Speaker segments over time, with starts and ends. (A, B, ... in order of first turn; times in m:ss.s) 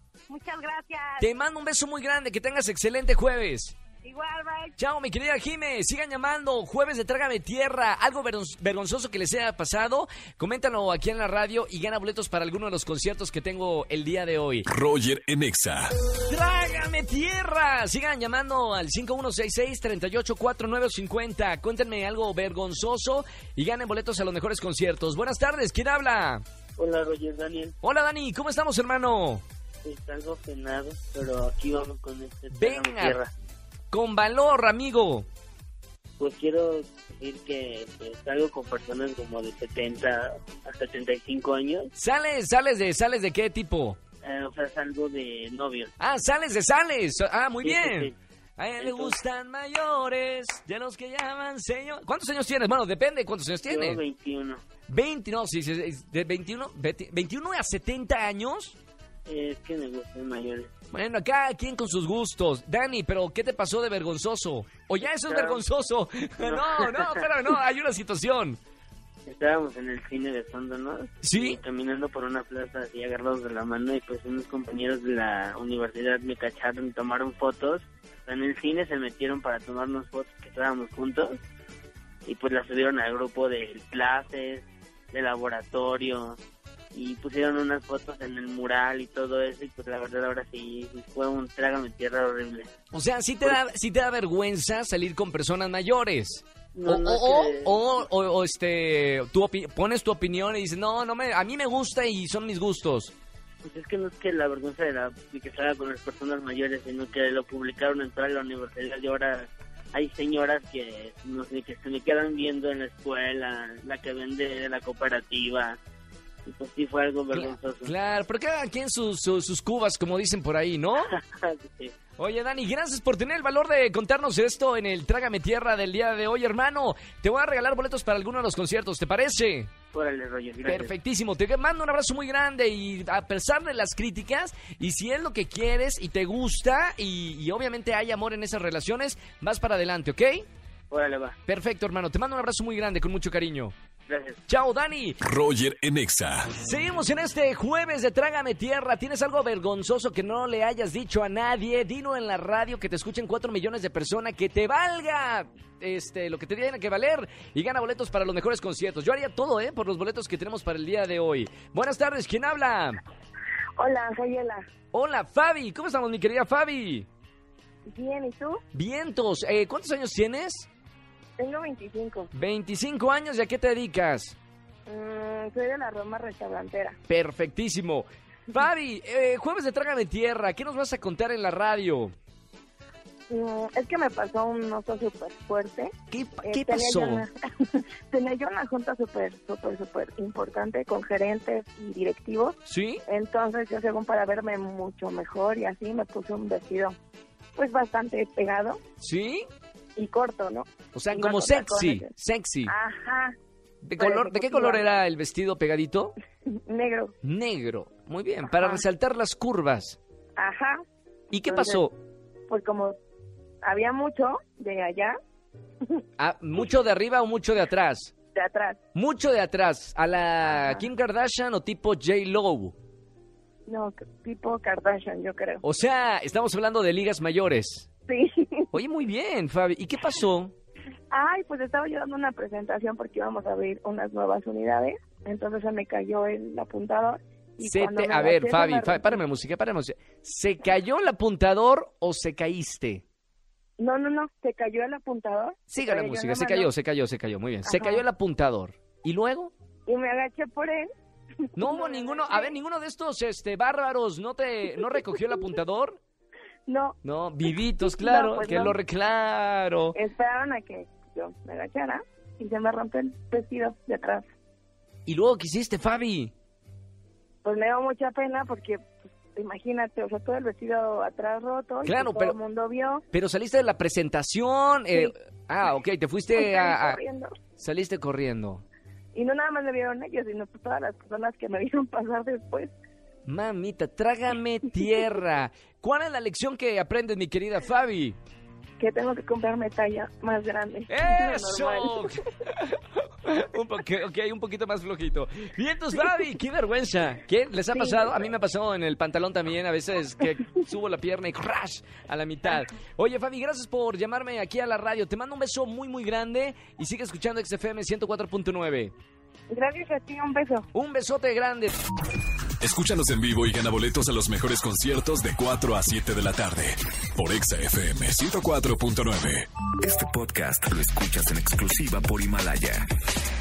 0:00.3-0:01.3 A
0:01.2-0:03.8 B
0:04.0-0:04.8 A
0:04.8-0:14.7 B
0:14.7-0:15.9 C
0:16.2-0:26.4 B
0:26.8-0:27.8 D
0:27.8-0:29.4 B
0:29.8-0:33.3 D
0:32.5-0:33.2 B
0:33.9-0:35.3 B
0:36.2-0:41.9 D
0:42.0-0:44.0 B
0:44.2-0:45.9 D
0:46.0-0:54.0 B
0:47.6-0:48.1 D
0:48.8-0:49.2 D
0:53.7-0:54.6 D
0:54.9-0:58.8 B
0:59.3-1:00.7 D
1:00.9-1:08.6 B
1:05.0-1:05.6 D
1:06.4-1:07.3 D
1:09.3-1:21.4 D
1:11.2-1:11.6 B
1:22.3-1:26.4 D
1:26.9-1:32.7 D
1:32.9-1:43.1 B
1:36.7-1:38.0 D
1:43.6-1:55.8 D
1:56.5-1:57.9 D
1:57.3-2:01.1 B
2:01.0-2:02.0 D
2:02.1-2:09.7 B
2:09.9-2:10.9 D
2:10.7-2:20.5 B
2:20.9-2:21.4 D
2:21.5-2:23.7 B
2:24.1-2:24.4 D
2:24.5-2:25.2 B
2:25.2-2:26.5 C
2:26.5-2:43.0 B
2:43.8-2:44.6 A
2:44.9-2:47.1 B
2:47.9-2:48.6 A
2:48.7-2:50.7 B
2:51.4-2:52.3 A
2:52.3-2:54.4 B
2:54.9-2:57.0 A
2:57.1-3:02.1 B
3:03.3-3:05.9 A
3:06.1-3:07.2 B
3:06.4-3:12.6 A
3:12.7-3:13.0 B
3:13.1-3:17.0 A
3:17.6-3:18.8 A
3:19.0-3:19.5 B
3:20.0-3:22.1 A
3:20.9-3:22.7 B
3:22.7-3:23.3 A
3:23.8-3:26.2 B
3:24.0-3:24.8 A
3:26.7-3:27.1 A
3:27.2-3:30.0 B
3:28.5-3:28.8 A
3:30.4-3:30.8 A
3:31.3-3:32.0 B
3:31.4-3:31.8 A
3:32.5-3:33.0 A
3:33.6-3:35.2 A
3:36.2-3:38.1 B
3:38.4-3:38.8 A
3:39.0-3:42.7 B
3:40.5-3:40.8 A
3:43.7-3:45.6 A
3:45.6-3:47.9 B
3:48.1-3:48.7 A
3:48.7-3:50.5 B
3:51.1-3:59.2 A
3:57.6-4:03.0 B
4:03.8-4:06.7 A
4:05.7-4:09.5 B
4:07.6-4:08.0 A
4:09.9-4:10.9 A
4:11.6-4:12.5 A
4:11.6-4:16.0 B
4:16.7-4:17.0 A
4:17.0-4:20.0 B
4:17.7-4:18.8 A
4:19.9-4:24.2 A
4:25.1-4:26.3 B
4:27.4-4:33.0 A
4:31.8-4:32.4 B
4:33.1-4:37.0 B
4:36.3-4:37.3 A
4:37.6-4:38.6 B
4:39.1-4:42.7 A
4:43.3-4:48.2 B
4:48.8-4:52.2 A
4:50.9-5:08.9 B
4:57.7-4:58.2 A
5:09.5-5:10.7 A
5:10.7-5:11.7 B
5:12.6-5:19.5 C
5:19.8-5:22.8 E